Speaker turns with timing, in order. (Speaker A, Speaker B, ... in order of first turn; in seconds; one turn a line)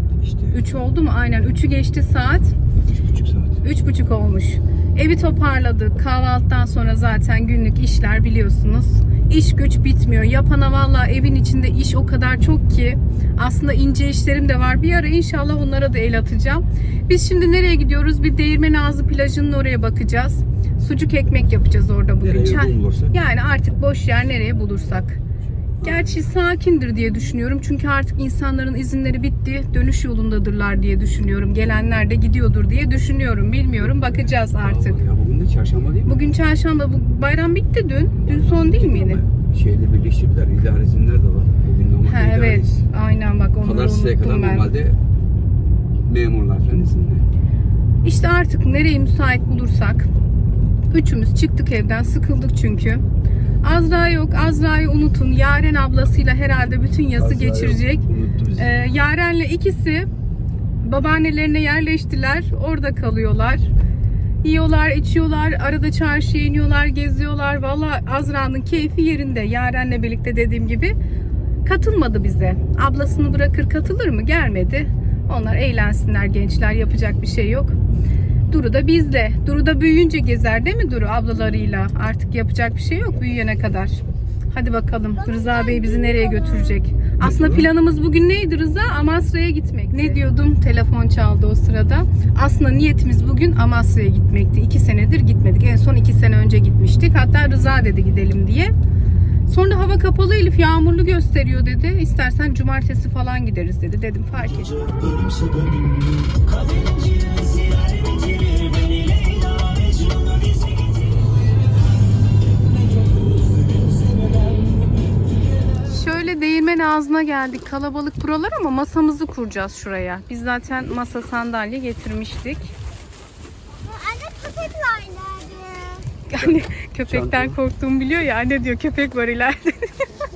Speaker A: 0.2-0.6
Speaker B: 0.5-2.5
Speaker A: 2.9-3.6
Speaker B: 3.6-25.2
Speaker A: 22.2-23.2
Speaker A: 25.8-26.3
Speaker B: 25.8-35.0
Speaker A: 33.8-36.2
Speaker B: 36.1-39.2
Speaker A: 38.2-42.8
Speaker B: 42.1-44.7
Speaker A: 43.6-45.0
Speaker A: 46.1-47.3
Speaker B: 48.0-50.1
Speaker B: 50.9-53.0
Speaker B: 53.6-58.0
Speaker A: 57.2-58.7
Speaker B: 58.6-60.1
Speaker B: 60.8-63.7
Speaker B: 64.4-71.0
Speaker B: 71.7-77.8
Speaker B: 78.5-98.7
Speaker C: 85.2-86.8
Speaker A: 87.2-87.7
Speaker B: 99.5-105.3
Speaker B: 115.8-122.8
Speaker C: 123.8-126.1
Speaker B: 126.3-130.1
Speaker A: 126.4-127.6